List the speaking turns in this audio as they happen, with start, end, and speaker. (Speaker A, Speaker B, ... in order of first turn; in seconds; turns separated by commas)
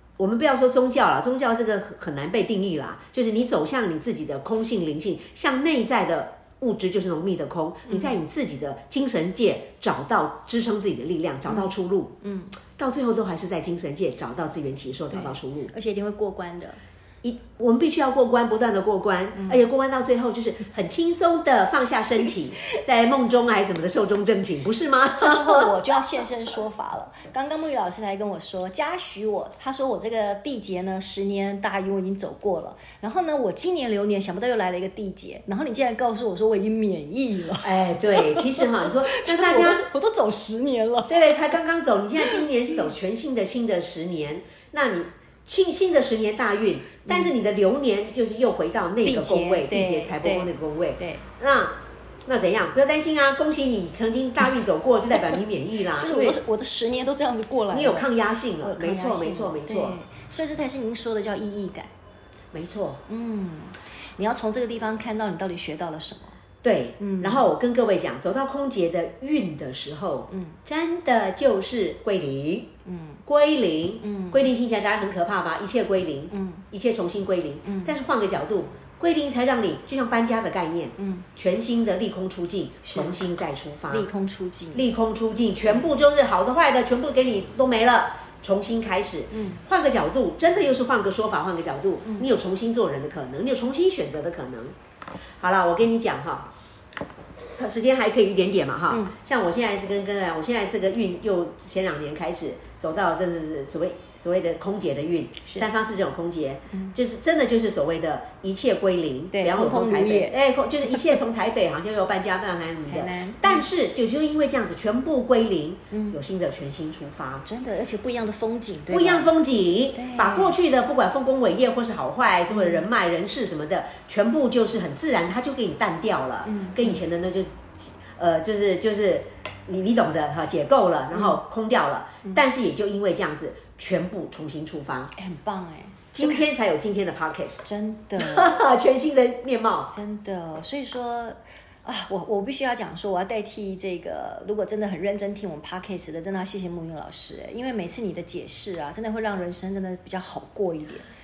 Speaker A: 0.2-12.2, Speaker B: 7.9-8.2, Speaker B: 11.5-12.6, Speaker A: 12.8-15.7, Speaker B: 15.1-16.8, Speaker A: 17.2-25.8, Speaker B: 19.4-19.6, Speaker B: 25.2-41.6, Speaker A: 37.6-39.8, Speaker A: 41.1-56.4, Speaker B: 42.2-42.5, Speaker B: 47.1-47.3, Speaker B: 49.0-51.3, Speaker B: 56.0-58.1, Speaker A: 57.7-60.0, Speaker B: 58.6-61.9, Speaker A: 62.5-63.0, Speaker B: 63.1-66.4, Speaker A: 66.6-72.7, Speaker B: 67.0-67.5, Speaker B: 70.3-70.6, Speaker B: 72.9-73.2, Speaker A: 73.3-84.1, Speaker B: 74.0-74.5, Speaker B: 76.3-76.7, Speaker B: 77.7-78.0, Speaker B: 81.0-81.3, Speaker B: 82.8-83.2, Speaker B: 83.9-84.9, Speaker A: 84.7-94.8, Speaker B: 89.3-89.6, Speaker A: 95.4-96.5, Speaker A: 97.4-117.5, Speaker B: 98.9-99.2, Speaker B: 106.7-107.0, Speaker B: 109.3-110.4, Speaker B: 112.9-113.7, Speaker B: 115.9-116.2, Speaker B: 117.5-119.3, Speaker A: 118.9-135.1, Speaker B: 119.9-120.6, Speaker B: 122.5-122.9, Speaker B: 126.5-127.0, Speaker B: 131.1-131.4, Speaker B: 135.2-136.5, Speaker A: 136.1-137.6, Speaker B: 137.6-138.6, Speaker A: 138.2-139.9, Speaker B: 139.9-151.1